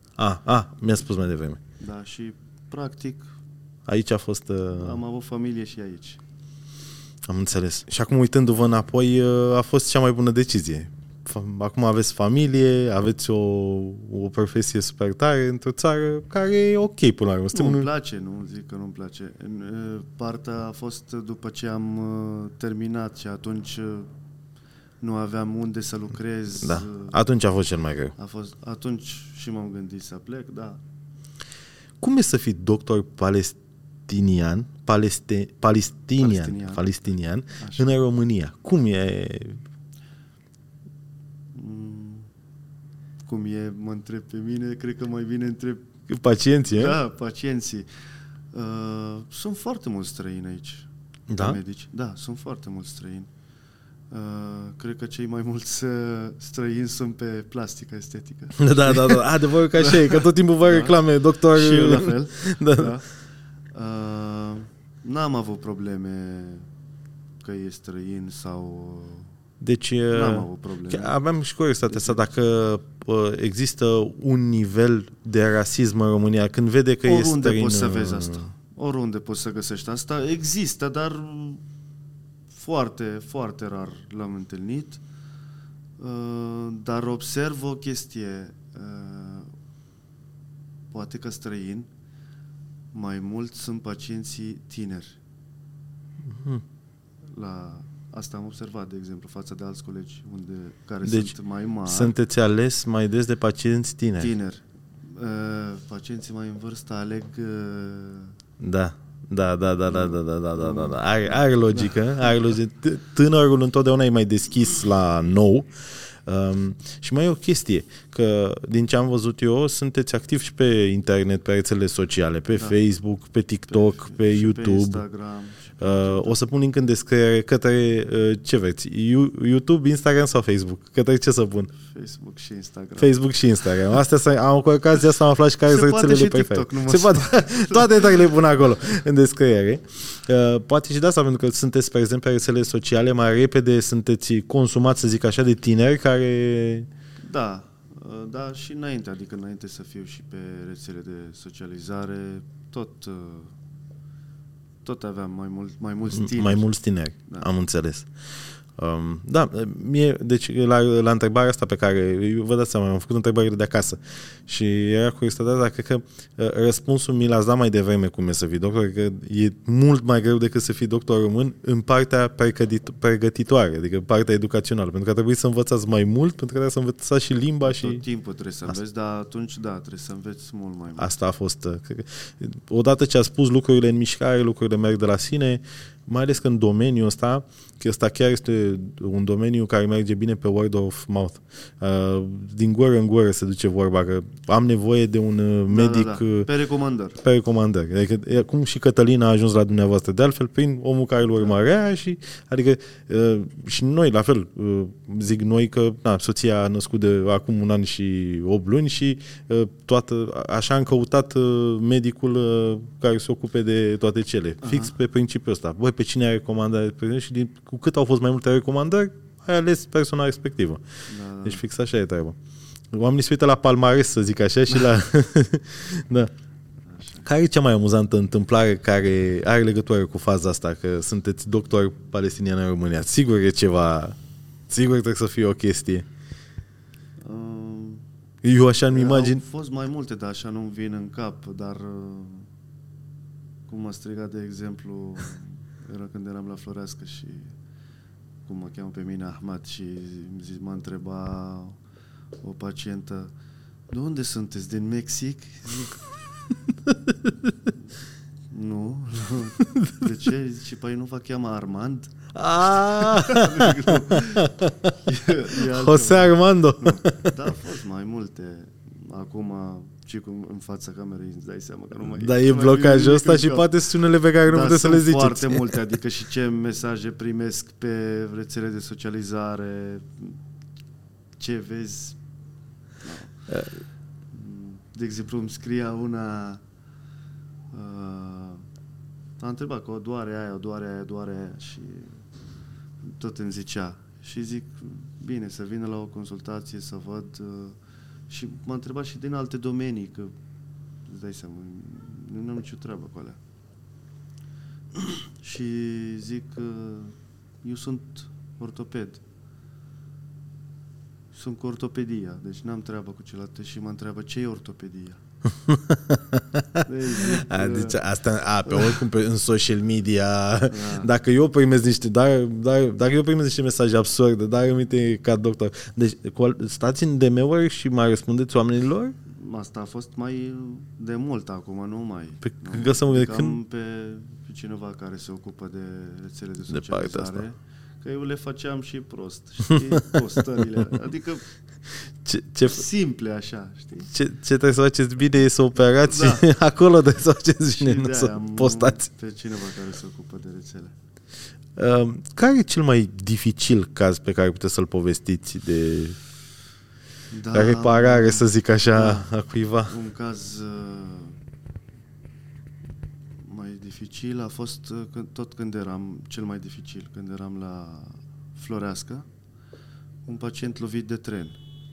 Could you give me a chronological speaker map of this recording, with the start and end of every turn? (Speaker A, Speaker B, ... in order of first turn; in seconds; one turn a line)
Speaker A: 0.2-1.6
Speaker B: 1.8-3.3
Speaker A: 3.9-5.0
Speaker B: 4.7-6.2
Speaker A: 7.3-17.9
Speaker B: 17.5-24.1
Speaker B: 25.0-27.2
Speaker A: 26.6-28.1
Speaker B: 28.2-30.8
Speaker A: 32.0-39.6
Speaker B: 36.2-37.0
Speaker B: 37.6-37.9
Speaker B: 41.5-42.3
Speaker B: 43.3-45.9
Speaker A: 46.1-47.0
Speaker B: 46.7-47.9
Speaker B: 48.5-53.3
Speaker A: 51.3-51.6
Speaker B: 54.1-63.1
Speaker A: 58.6-62.9
Speaker B: 63.7-66.7
Speaker B: 67.4-69.3
Speaker A: 69.6-78.5
Speaker B: 70.1-71.2
Speaker B: 71.9-72.2
Speaker B: 77.0-81.6
Speaker B: 82.5-85.0
Speaker B: 86.0-89.5
Speaker B: 90.9-91.9
Speaker B: 92.9-95.2
Speaker A: 96.2-96.6
Speaker B: 97.3-102.2
Speaker A: 101.0-101.3
Speaker A: 101.9-104.3
Speaker B: 104.2-108.4
Speaker A: 108.6-115.7
Speaker B: 109.9-112.5
Speaker A: 116.2-125.0
Speaker B: 122.5-122.8
Speaker B: 123.7-126.4
Speaker A: 125.8-131.7
Speaker B: 131.8-133.2
Speaker A: 133.0-146.9
Speaker B: 135.7-138.4
Speaker B: 147.2-153.5
Speaker B: 154.8-156.7
Speaker A: 156.1-158.1
Speaker A: 158.8-178.0
Speaker B: 177.6-181.2
Speaker A: 181.0-196.5
Speaker B: 195.7-197.2
Speaker A: 197.2-220.8
Speaker B: 214.6-214.9
Speaker B: 221.1-221.6
Speaker A: 221.4-222.4
Speaker A: 222.9-226.3
Speaker B: 226.9-227.2
Speaker A: 227.2-234.2
Speaker A: 234.7-236.1
Speaker B: 237.2-238.1
Speaker A: 238.4-239.4
Speaker B: 238.9-242.5
Speaker B: 243.7-247.6
Speaker B: 248.5-251.8
Speaker B: 252.4-253.3
Speaker B: 253.9-256.0
Speaker A: 256.9-257.3
Speaker B: 258.5-262.1
Speaker A: 259.6-260.1
Speaker A: 262.3-267.4
Speaker B: 262.7-273.7
Speaker A: 272.1-275.8
Speaker B: 274.4-280.4
Speaker B: 281.4-282.2
Speaker B: 283.0-283.5
Speaker B: 284.3-286.6
Speaker B: 287.7-288.6
Speaker B: 289.4-292.2
Speaker B: 293.0-297.8
Speaker B: 298.3-300.3
Speaker B: 301.1-303.4
Speaker B: 304.9-309.2
Speaker B: 311.3-315.2
Speaker A: 315.5-329.1
Speaker B: 316.9-318.0
Speaker B: 318.7-319.0
Speaker B: 320.7-321.1
Speaker B: 329.3-341.4
Speaker A: 332.4-333.6
Speaker A: 336.7-337.4
Speaker A: 339.7-340.8
Speaker A: 342.2-342.8
Speaker B: 342.6-344.1
Speaker A: 344.1-349.1
Speaker B: 346.0-346.5
Speaker B: 347.7-350.9
Speaker A: 351.8-356.2
Speaker B: 357.3-359.3
Speaker A: 357.5-359.9
Speaker B: 359.9-361.4
Speaker B: 363.4-369.3
Speaker B: 370.3-371.6